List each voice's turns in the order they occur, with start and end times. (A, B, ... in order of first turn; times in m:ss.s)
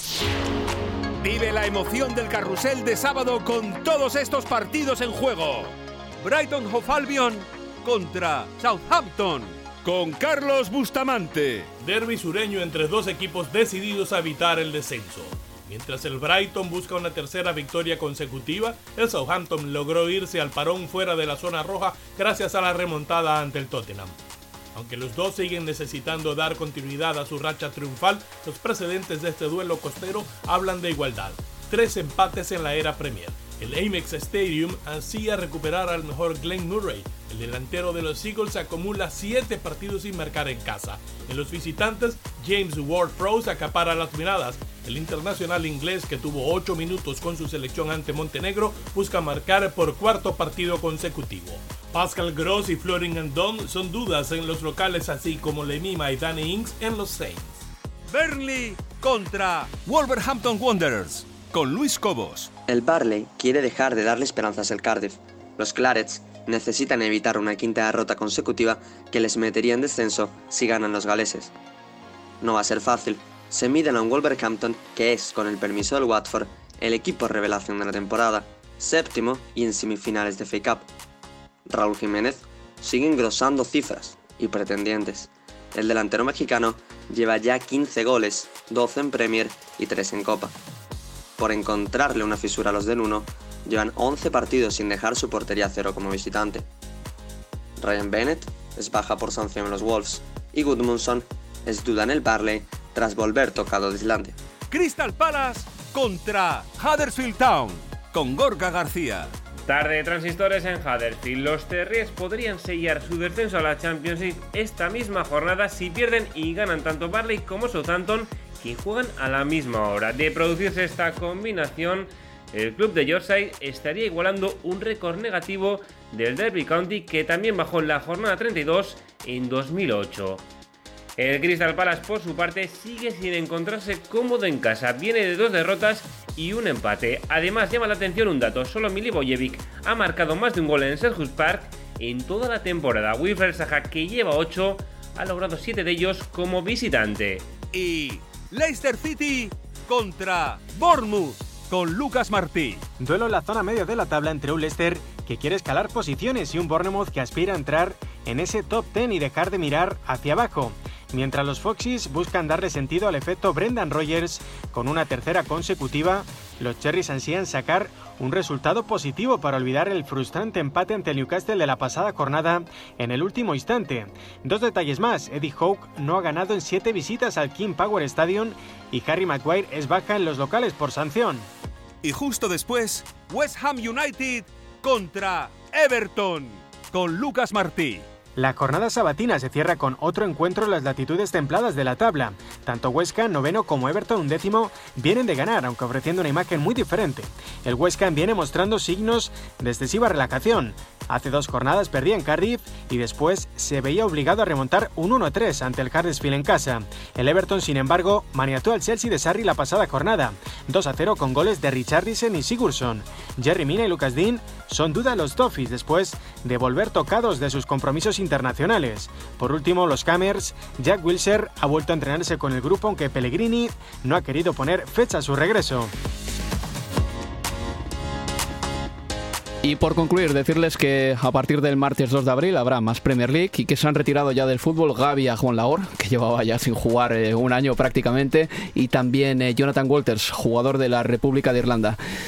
0:01.2-0:11.7 A
0:11.8-0:24.2 B
0:24.8-0:57.6 B
0:58.1-1:02.5 A
1:02.7-1:11.5 C
1:12.4-1:20.9 C
1:21.7-1:30.5 C
1:31.4-1:36.7 C
1:37.8-1:44.4 C
1:44.7-1:49.3 A
1:49.7-2:10.4 D
2:11.2-2:27.4 D
2:27.7-2:32.8 A
2:33.0-3:01.5 E
3:02.0-3:08.0 A
3:08.4-3:45.9 E
3:49.6-4:02.0 F